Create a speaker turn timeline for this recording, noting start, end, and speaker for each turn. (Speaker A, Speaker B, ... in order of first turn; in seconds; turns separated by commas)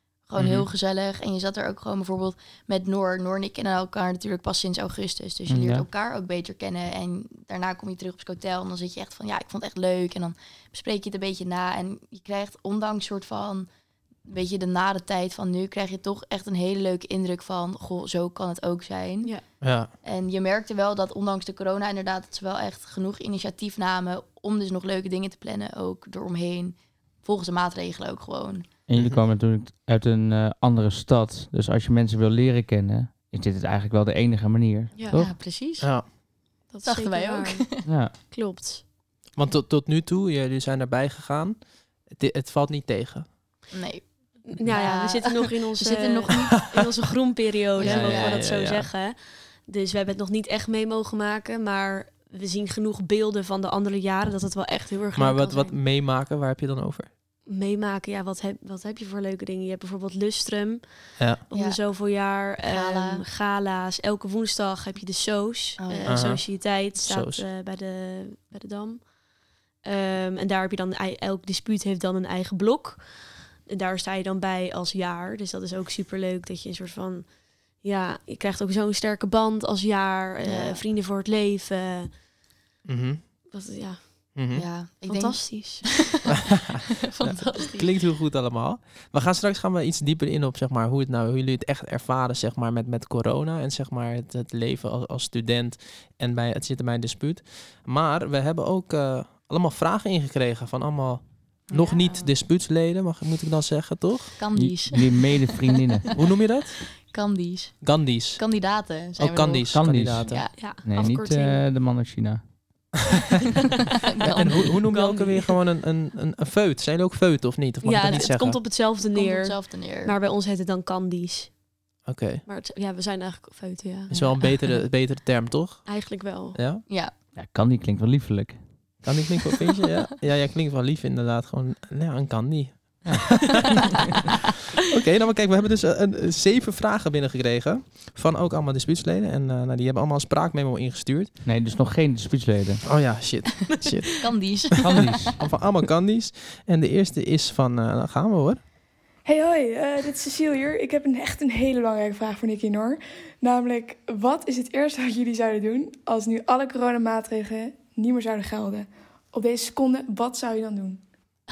Speaker A: 0.3-13.7, Speaker B: 0.4-0.7, Speaker C: 5.5-5.8, Speaker A: 14.3-19.3, Speaker B: 19.6-19.9, Speaker A: 20.0-28.7, Speaker C: 28.9-35.3, Speaker B: 29.0-29.2, Speaker D: 34.9-35.2, Speaker A: 35.1-36.1, Speaker B: 35.8-36.1, Speaker D: 36.7-38.8, Speaker A: 36.8-37.8, Speaker C: 37.9-38.1, Speaker B: 39.4-43.3, Speaker A: 43.7-46.6, Speaker D: 44.5-55.8, Speaker A: 47.8-48.5, Speaker B: 47.8-48.9, Speaker B: 55.1-57.1, Speaker D: 57.5-69.1, Speaker A: 61.5-63.2, Speaker A: 65.8-66.3, Speaker B: 66.1-67.4, Speaker D: 69.8-82.1, Speaker A: 80.4-80.8, Speaker B: 82.8-83.2, Speaker D: 83.5-84.4, Speaker B: 84.3-84.7, Speaker A: 84.5-86.1, Speaker D: 85.0-86.0, Speaker B: 86.6-104.4, Speaker A: 87.1-87.9, Speaker A: 101.7-102.3, Speaker A: 104.4-105.6, Speaker C: 104.5-106.1, Speaker B: 106.1-106.8, Speaker A: 107.0-110.5, Speaker B: 107.8-108.4, Speaker B: 109.2-110.4, Speaker C: 109.7-112.4, Speaker D: 110.5-111.6, Speaker A: 114.2-114.7, Speaker B: 114.3-118.6, Speaker D: 114.4-115.5, Speaker D: 117.8-121.6, Speaker A: 119.0-120.1, Speaker B: 122.0-122.4, Speaker D: 122.5-124.7, Speaker B: 124.1-126.8, Speaker D: 125.8-126.6, Speaker A: 126.9-127.1, Speaker C: 127.3-128.6, Speaker B: 129.0-133.7, Speaker C: 133.0-133.4, Speaker B: 134.8-141.3, Speaker C: 141.4-142.8, Speaker B: 142.8-144.7, Speaker A: 144.2-145.1, Speaker C: 144.8-145.3, Speaker B: 145.4-148.6, Speaker E: 149.2-161.0